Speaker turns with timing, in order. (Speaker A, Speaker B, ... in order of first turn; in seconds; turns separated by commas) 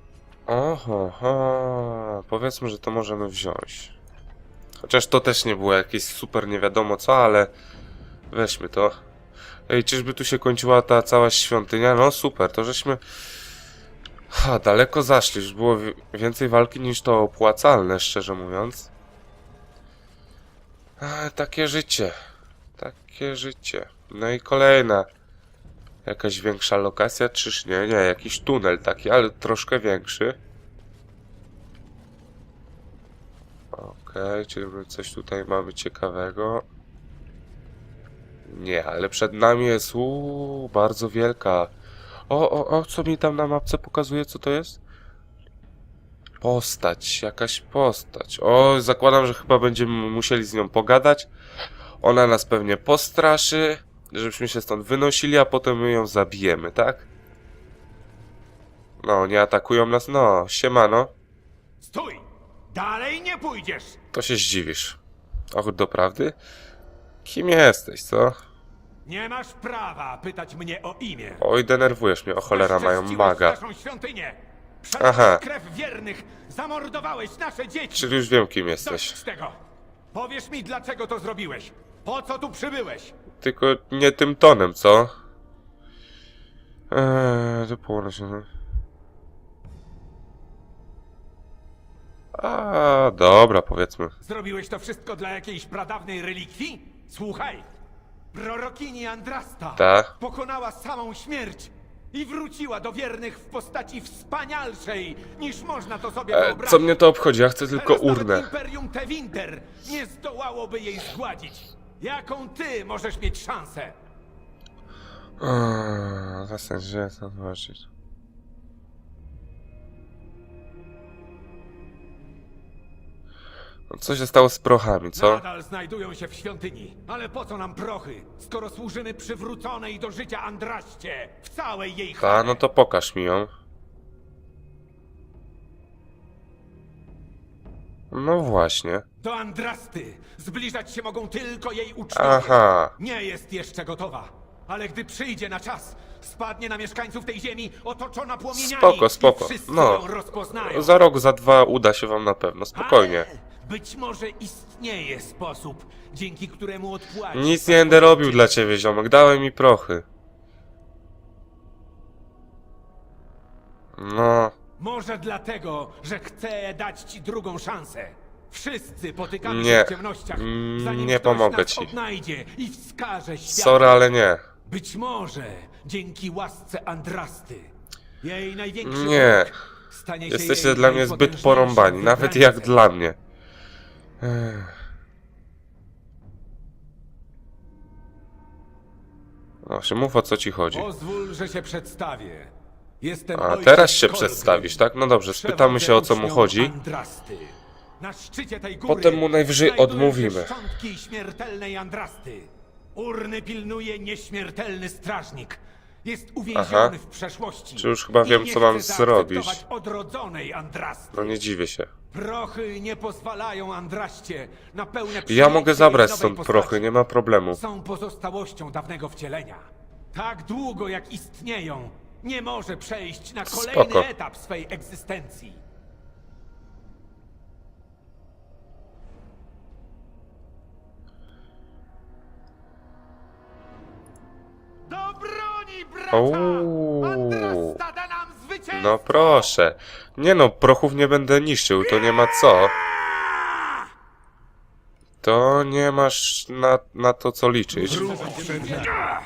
Speaker A: 0.5-4.0, Speaker A: 4.8-7.5, Speaker A: 8.3-8.9, Speaker A: 9.7-13.0, Speaker A: 14.3-18.9, Speaker A: 21.0-22.2, Speaker A: 22.8-25.1, Speaker A: 26.1-30.4, Speaker A: 33.7-36.7, Speaker A: 38.5-41.7, Speaker A: 42.3-44.8, Speaker A: 46.4-51.3, Speaker A: 52.0-57.1, Speaker A: 59.0-61.1, Speaker B: 61.8-64.0, Speaker A: 64.1-65.0, Speaker A: 65.5-66.4, Speaker A: 67.2-68.4, Speaker B: 69.0-71.5, Speaker A: 71.4-73.6, Speaker B: 72.5-78.1, Speaker A: 75.0-75.4, Speaker A: 78.0-79.2, Speaker B: 78.8-79.6, Speaker B: 80.1-83.2, Speaker A: 83.4-85.1, Speaker A: 86.9-88.5, Speaker A: 92.3-94.1, Speaker B: 94.2-97.7, Speaker B: 98.3-107.0, Speaker A: 99.8-100.1, Speaker A: 106.3-108.5, Speaker B: 107.7-114.0, Speaker A: 115.4-117.9, Speaker A: 123.9-125.4, Speaker B: 125.2-132.6, Speaker A: 132.2-133.5, Speaker A: 138.1-139.0, Speaker B: 139.2-150.9, Speaker A: 142.1-142.9, Speaker A: 148.5-153.3, Speaker B: 152.7-158.5, Speaker A: 157.3-160.1, Speaker A: 164.0-164.5, Speaker B: 164.8-174.1, Speaker A: 169.4-171.9, Speaker A: 173.5-174.4, Speaker B: 174.7-177.7, Speaker B: 178.2-182.8, Speaker A: 178.8-179.6, Speaker A: 180.3-183.2, Speaker A: 184.2-184.8, Speaker A: 189.7-190.9, Speaker B: 190.7-194.8, Speaker A: 193.3-196.7, Speaker B: 195.3-211.4, Speaker A: 198.9-200.6, Speaker A: 206.5-206.9, Speaker A: 207.8-209.6, Speaker A: 211.1-211.9, Speaker B: 212.1-216.9, Speaker A: 215.3-217.6, Speaker B: 217.5-225.6, Speaker A: 223.5-224.1, Speaker B: 234.9-239.5, Speaker A: 236.1-237.8, Speaker A: 238.7-242.8, Speaker A: 245.2-248.3, Speaker B: 247.8-249.0